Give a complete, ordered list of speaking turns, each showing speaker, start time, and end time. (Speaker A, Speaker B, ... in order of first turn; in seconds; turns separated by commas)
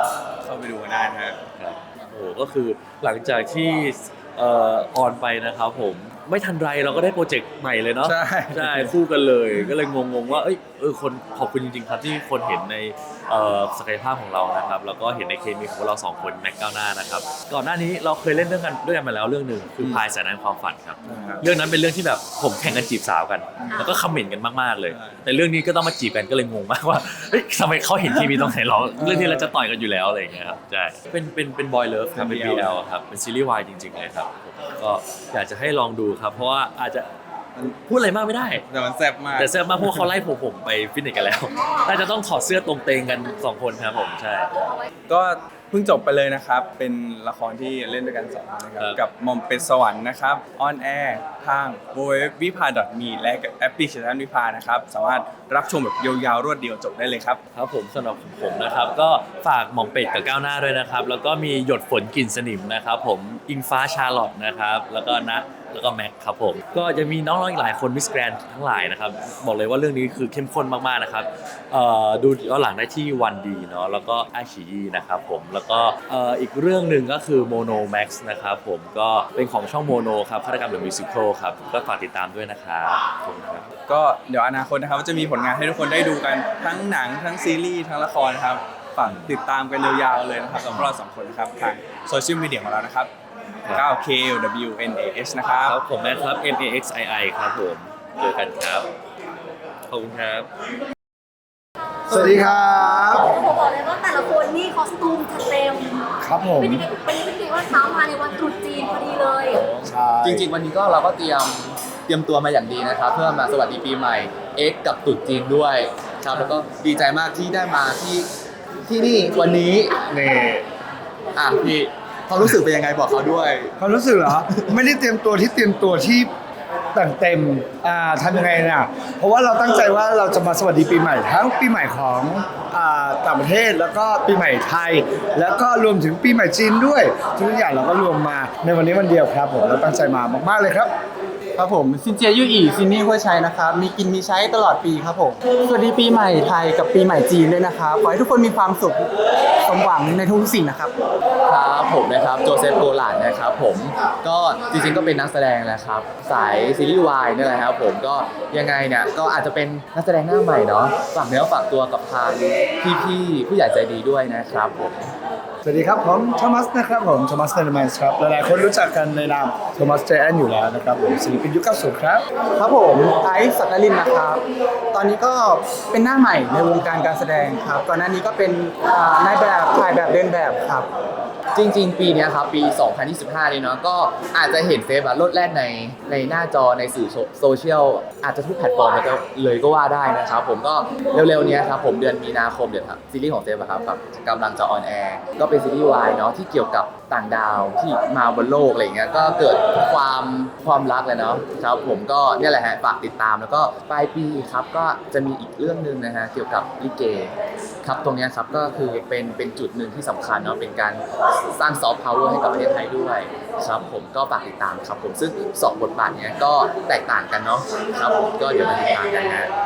Speaker A: 0.4-1.4, Speaker B: 1.6-37.1, Speaker A: 8.0-8.9, Speaker A: 21.1-21.5, Speaker A: 24.9-25.2, Speaker A: 28.9-29.5, Speaker A: 32.1-32.8, Speaker B: 37.6-38.6, Speaker A: 38.5-40.0, Speaker B: 39.4-44.5, Speaker C: 44.6-44.9, Speaker A: 45.1-57.4, Speaker B: 48.8-49.0, Speaker B: 57.5-83.7, Speaker A: 83.9-93.1, Speaker B: 89.0-89.3, Speaker B: 90.6-90.9, Speaker A: 93.7-95.8, Speaker B: 95.6-98.9, Speaker B: 99.9-100.5, Speaker D: 102.1-103.4, Speaker C: 103.1-109.6, Speaker D: 106.2-106.9, Speaker D: 109.7-110.5, Speaker E: 110.2-118.3, Speaker E: 118.8-120.0, Speaker D: 120.1-120.7, Speaker E: 121.3-123.8, Speaker D: 123.8-126.3, Speaker E: 124.3-124.7, Speaker D: 126.9-140.9, Speaker F: 141.6-149.1, Speaker F: 149.7-150.9, Speaker E: 151.5-165.1, Speaker D: 165.7-172.2, Speaker F: 172.6-180.9, Speaker E: 181.6-211.0, Speaker E: 211.6-219.5